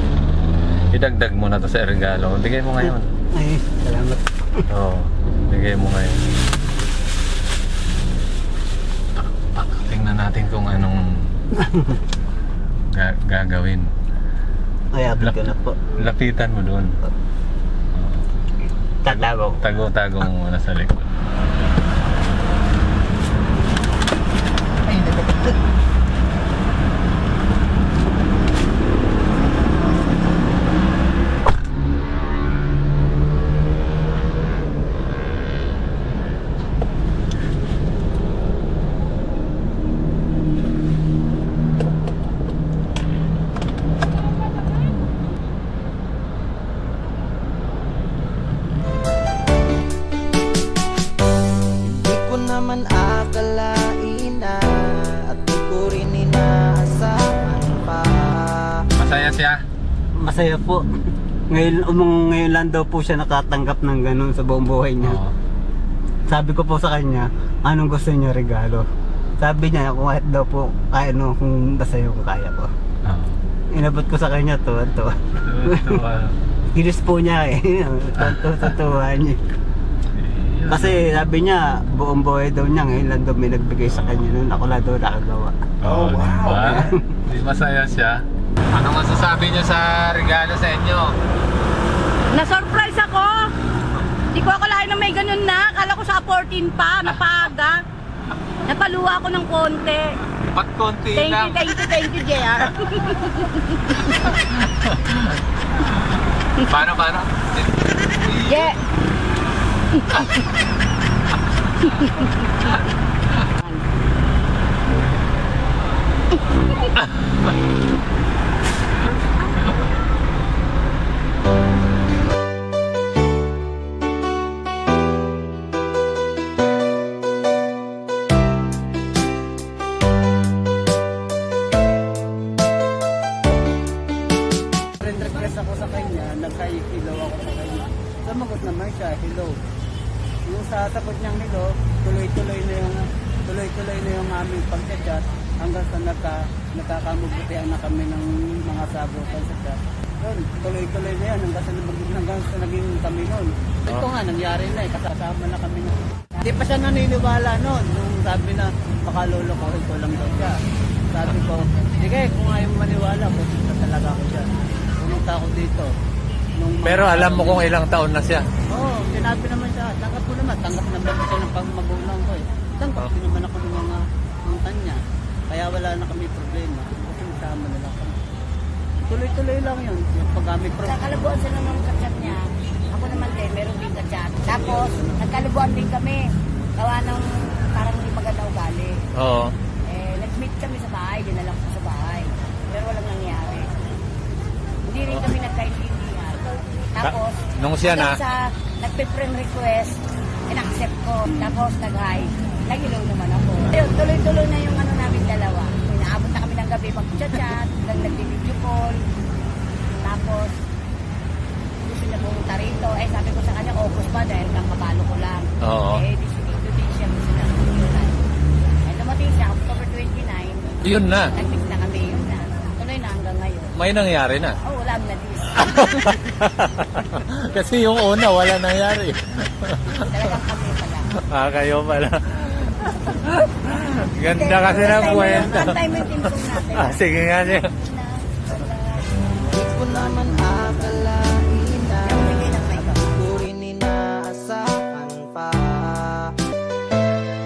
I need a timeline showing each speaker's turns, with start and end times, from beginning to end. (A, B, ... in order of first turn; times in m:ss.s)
0:00.9-0:03.1 A
0:02.8-0:04.6 B
0:04.7-0:06.2 A
0:09.2-0:11.3 A
0:11.5-0:12.0 B
0:12.9-0:13.9 A
0:14.9-0:15.8 B
0:15.2-0:16.9 A
0:17.9-0:18.2 A
0:19.0-0:19.6 B
0:19.1-0:21.1 A
0:24.9-0:25.6 B
0:51.9-0:58.8 C
0:59.0-0:59.6 A
1:00.2-1:00.8 B
1:01.5-1:05.2 B
1:05.0-1:05.3 A
1:06.3-1:08.9 B
1:09.4-1:12.7 B
1:13.1-1:13.4 A
1:13.7-1:16.0 B
1:15.4-1:16.4 A
1:16.8-1:19.4 B
1:18.2-1:18.7 A
1:20.1-1:21.0 A
1:20.7-1:25.6 B
1:24.0-1:24.3 A
1:25.8-1:28.2 A
1:26.6-1:27.0 B
1:28.7-1:31.2 A
1:32.3-1:33.5 D
1:34.3-1:37.8 D
1:38.7-1:40.1 D
1:40.5-1:41.6 A
1:41.2-1:44.4 D
1:44.0-1:48.7 A
1:48.5-1:48.8 D
1:49.9-1:50.5 D
1:51.8-1:52.8 D
1:53.6-1:53.9 D
1:56.3-1:57.0 D
1:57.0-1:57.6 A
2:15.0-2:19.6 B
2:20.5-2:40.6 B
2:41.1-2:45.9 B
2:46.6-2:47.6 B
2:46.8-2:48.4 A
2:48.7-2:58.3 B
2:59.1-3:01.3 B
3:00.8-3:02.4 D
3:02.9-3:06.2 D
3:04.4-3:05.2 B
3:06.8-3:09.0 D
3:09.2-3:09.5 A
3:09.9-3:13.8 D
3:14.9-3:29.0 D
3:17.0-3:18.2 A
3:21.3-3:21.6 B
3:29.9-3:30.6 D
3:31.8-3:38.2 D
3:35.6-3:36.0 A
3:38.8-3:43.8 D
3:40.8-3:41.3 A
3:43.8-3:44.6 A
3:44.6-3:45.8 D
3:45.5-3:50.2 A
3:50.0-3:51.1 D
3:51.2-3:57.7 A
3:54.3-3:59.3 D
3:59.5-4:06.3 C
4:00.0-4:01.1 D
4:02.0-4:03.4 D